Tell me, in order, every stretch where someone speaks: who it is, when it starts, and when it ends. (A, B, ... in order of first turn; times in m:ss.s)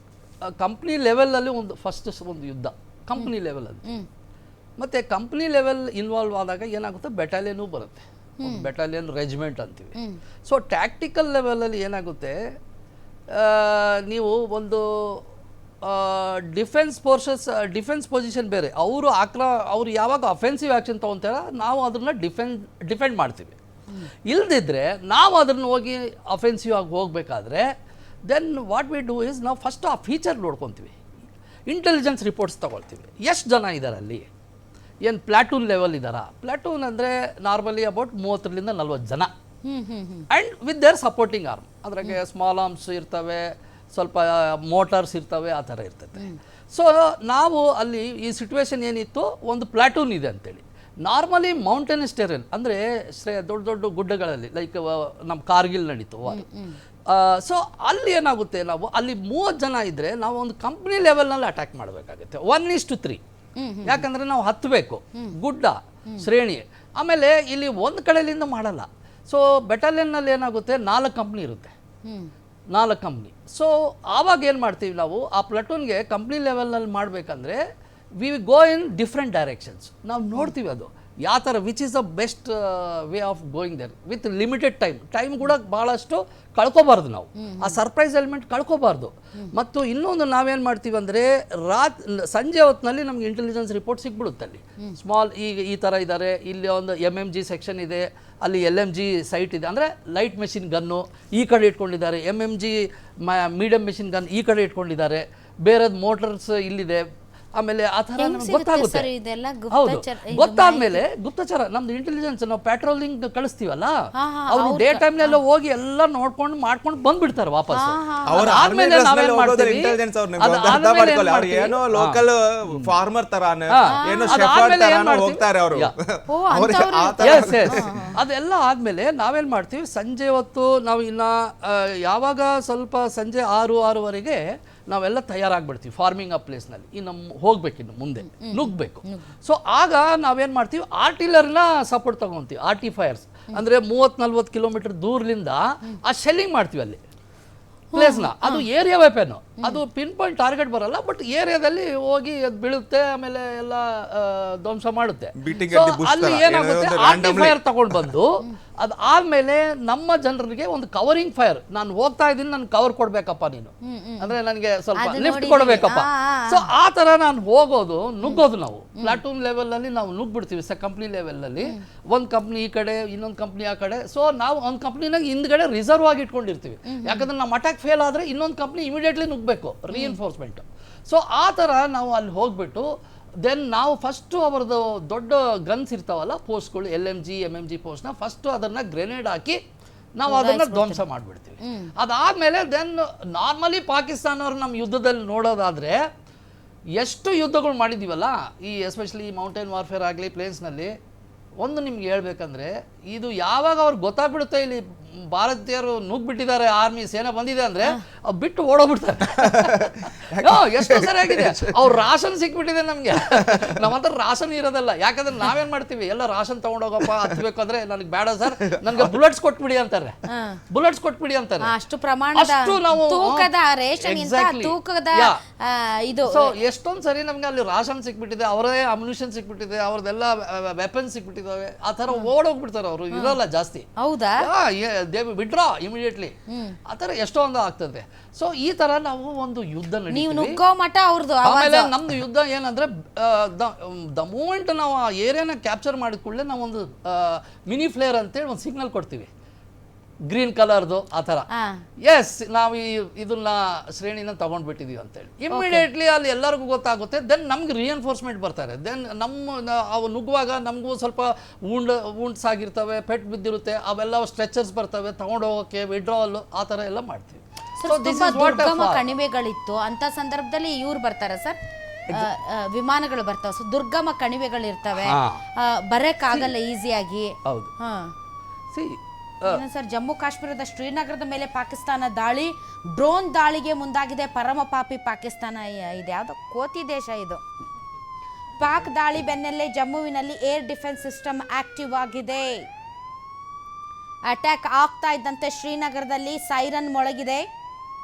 0:00.4-0:03.9 A
0:04.8-0:09.9 A
0:08.4-0:08.7 B
0:10.4-0:12.5 A
0:13.3-0:15.2 A
0:15.8-0:23.6 A
0:24.3-0:27.7 A
0:28.3-0:30.9 A
0:31.7-0:34.3 A
0:35.0-0:39.3 A
0:39.6-0:40.2 B
0:40.3-0:56.5 A
0:56.3-0:56.8 B
0:57.1-1:03.2 A
1:03.6-1:04.0 B
1:03.8-1:11.7 A
1:12.0-1:12.3 B
1:12.7-1:17.6 A
1:18.2-1:49.1 A
1:27.4-1:27.8 B
1:48.2-1:51.0 B
1:49.7-2:02.2 A
1:54.1-1:55.4 B
1:57.7-1:58.6 B
1:58.3-2:08.1 C
2:03.7-2:05.9 A
2:03.9-2:04.3 B
2:06.3-2:08.2 B
2:07.2-2:27.0 A
2:18.2-2:19.3 B
2:27.9-2:28.6 B
2:27.9-3:02.9 A
2:35.4-2:38.1 C
2:43.8-2:44.3 B
2:45.0-2:46.6 B
2:56.8-2:57.3 B
2:59.9-3:00.2 B
3:03.4-3:09.6 A
3:10.2-3:16.1 A
3:10.3-3:11.0 B
3:11.6-3:11.9 B
3:16.9-3:20.9 A
3:21.6-3:40.1 A
3:29.4-3:31.9 C
3:33.2-3:33.9 C
3:38.4-3:39.2 C
3:40.2-3:40.6 B
3:40.7-3:41.7 A
3:41.6-3:46.5 B
3:42.3-3:43.5 A
3:44.0-3:45.4 A
3:46.3-3:53.9 A
3:53.1-3:53.4 B
3:54.0-3:54.5 B
3:54.4-3:56.4 A
3:56.5-3:56.8 B
3:56.9-4:00.6 A
4:00.1-4:01.9 B
4:01.4-4:09.3 A
4:10.3-4:11.5 A
4:11.5-4:11.8 B
4:12.0-4:29.1 A
4:15.5-4:15.8 B
4:27.8-4:31.6 B
4:32.1-4:38.1 B
4:35.0-4:35.4 A
4:37.4-4:37.7 A
4:38.7-4:39.6 A
4:39.5-4:47.4 B
4:48.6-4:52.6 B
4:54.3-4:57.4 B